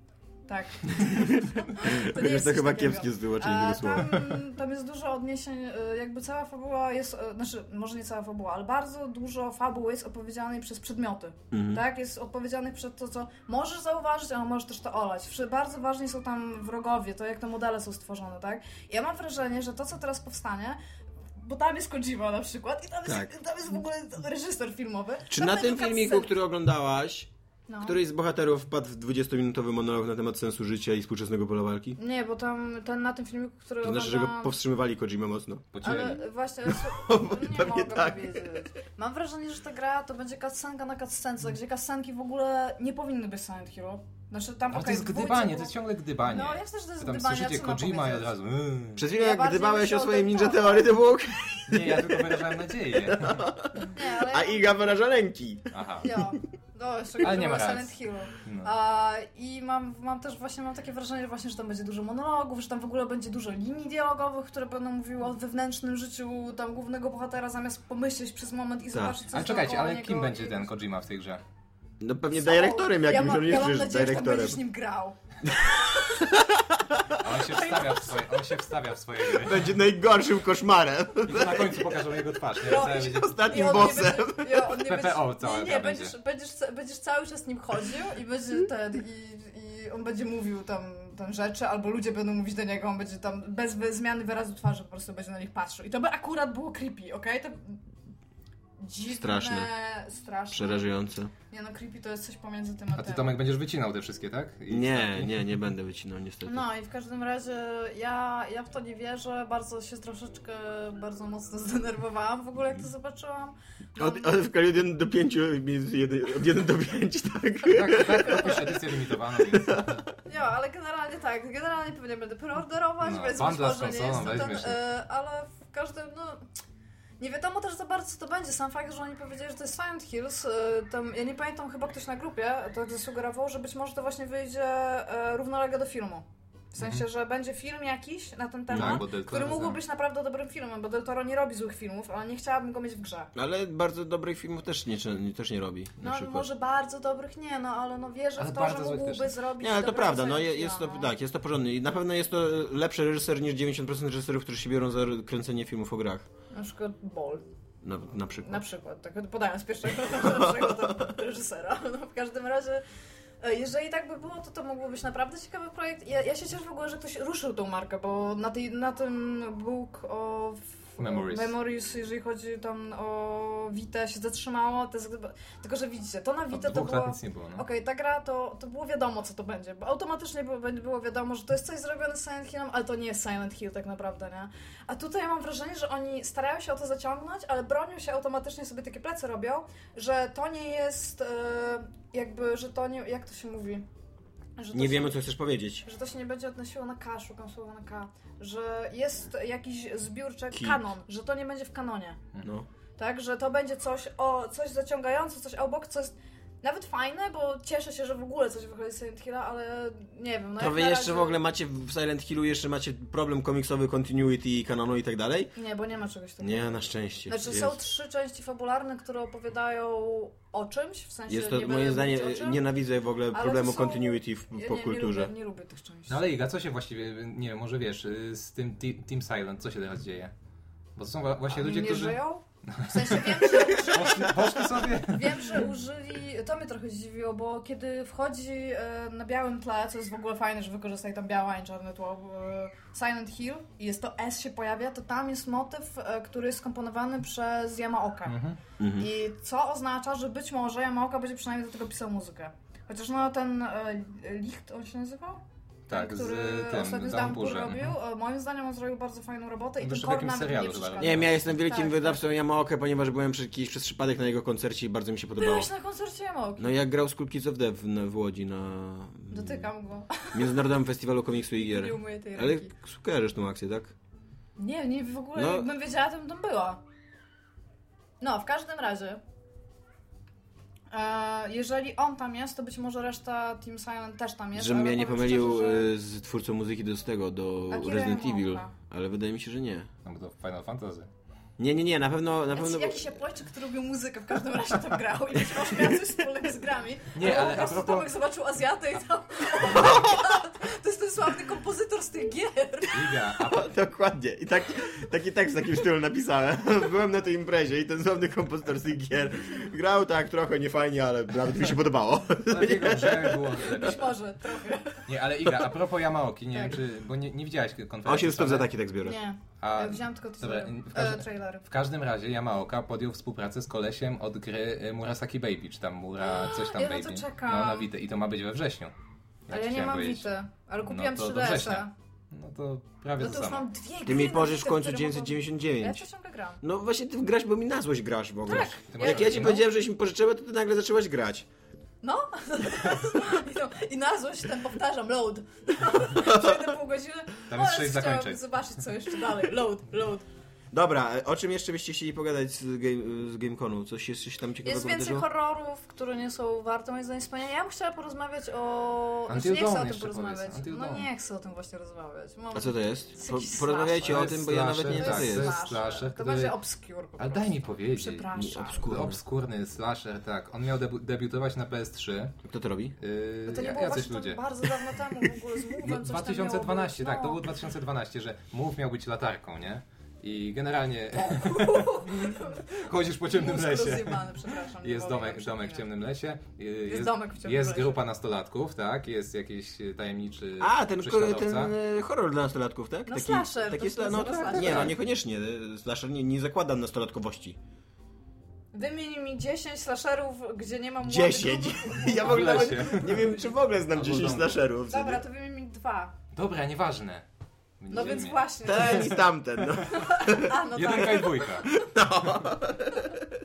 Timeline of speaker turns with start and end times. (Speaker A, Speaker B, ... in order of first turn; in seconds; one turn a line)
Speaker A: 0.5-20.8
Speaker B: 1.1-4.4
Speaker B: 11.5-11.8
Speaker A: 21.4-26.4
Speaker B: 23.1-23.3
Speaker B: 25.3-27.3
Speaker A: 27.7-28.0
Speaker B: 27.8-32.0
Speaker A: 32.0-34.5
Speaker B: 33.8-35.7
Speaker C: 35.7-36.2
Speaker A: 35.8-45.7
Speaker B: 36.7-38.5
Speaker C: 44.7-49.0
Speaker A: 46.3-48.3
Speaker B: 49.0-56.3
Speaker A: 49.1-51.0
Speaker C: 51.7-53.5
Speaker A: 53.9-54.7
Speaker C: 55.7-56.1
Speaker A: 56.0-70.7
Speaker C: 57.2-58.7
Speaker C: 69.3-71.4
Speaker B: 72.0-74.6
Speaker A: 72.3-76.3
Speaker B: 75.5-77.2
Speaker C: 77.2-79.8
Speaker A: 77.5-78.3
Speaker B: 79.4-82.1
Speaker C: 81.2-86.1
Speaker A: 82.6-97.8
Speaker B: 82.7-84.6
Speaker A: 98.8-103.3
Speaker B: 99.1-99.7
Speaker B: 100.5-101.3
Speaker C: 103.0-105.5
Speaker B: 104.7-106.6
Speaker A: 106.5-114.3
Speaker B: 114.0-120.0
Speaker C: 117.7-120.0
Speaker A: 120.3-126.4
Speaker C: 123.0-124.8
Speaker A: 127.2-143.3
Speaker C: 136.8-137.0
Speaker B: 138.7-139.0
Speaker C: 138.7-139.8
Speaker B: 143.3-146.5
Speaker A: 146.0-151.1
Speaker C: 148.4-149.3
Speaker B: 149.6-156.3
Speaker A: 156.5-157.4
Speaker B: 157.8-158.6
Speaker A: 158.4-162.8
Speaker A: 163.4-193.9
Speaker C: 171.0-171.5
Speaker C: 176.5-177.7
Speaker A: 194.6-195.2
Speaker B: 194.7-195.8
Speaker A: 195.8-202.2
Speaker B: 200.5-200.8
Speaker B: 202.4-202.7
Speaker A: 203.0-211.4
Speaker B: 210.6-215.5
Speaker A: 215.6-222.6
Speaker B: 216.4-217.8
Speaker B: 221.3-225.3
Speaker A: 223.3-226.2
Speaker C: 226.1-230.3
Speaker C: 231.0-235.7
Speaker A: 231.5-248.3
Speaker C: 248.3-248.6
Speaker B: 248.8-249.1
Speaker A: 249.0-262.2
Speaker C: 255.9-257.9
Speaker C: 259.8-261.4
Speaker B: 261.0-265.7
Speaker A: 265.4-266.7
Speaker B: 266.6-269.7
Speaker A: 269.3-270.6
Speaker B: 270.3-273.9
Speaker A: 271.6-272.7
Speaker A: 274.6-276.8
Speaker B: 275.4-275.7
Speaker A: 278.2-279.2
Speaker A: 280.9-285.9
Speaker B: 284.6-289.9
Speaker A: 287.7-288.7
Speaker C: 290.1-291.1
Speaker B: 291.6-293.0
Speaker A: 292.5-303.1
Speaker C: 297.1-298.1
Speaker B: 299.8-300.1
Speaker C: 302.9-303.7
Speaker B: 303.4-313.9
Speaker C: 312.5-314.2
Speaker A: 313.7-315.1
Speaker C: 315.1-318.7
Speaker A: 316.5-316.8
Speaker B: 318.1-319.2
Speaker A: 319.0-321.7
Speaker C: 319.6-328.9
Speaker A: 326.2-327.9
Speaker C: 329.5-330.3
Speaker A: 329.5-331.9
Speaker C: 330.9-333.7
Speaker A: 333.2-336.6
Speaker B: 334.1-336.1
Speaker B: 336.6-341.5
Speaker A: 338.5-339.7
Speaker C: 338.9-339.6
Speaker A: 342.0-350.3
Speaker B: 346.1-346.7
Speaker C: 347.5-348.4
Speaker B: 350.7-355.3
Speaker A: 354.6-364.4
Speaker C: 359.3-361.1
Speaker B: 362.5-365.6
Speaker C: 364.0-366.6
Speaker A: 364.9-368.9
Speaker C: 367.2-372.4
Speaker B: 368.4-369.2
Speaker B: 372.4-373.0
Speaker C: 373.0-374.6
Speaker A: 373.5-377.4
Speaker C: 375.8-391.8
Speaker A: 381.2-382.7
Speaker A: 383.3-385.9
Speaker A: 386.9-388.0
Speaker B: 390.6-397.6
Speaker A: 393.1-395.0
Speaker C: 394.1-395.0
Speaker A: 398.7-403.1
Speaker B: 401.0-405.2
Speaker C: 402.1-404.6
Speaker A: 404.9-406.2
Speaker C: 406.3-407.2
Speaker C: 407.8-409.2
Speaker A: 407.9-409.2
Speaker B: 408.0-410.6
Speaker A: 409.8-411.5
Speaker C: 410.7-411.8
Speaker B: 411.4-413.2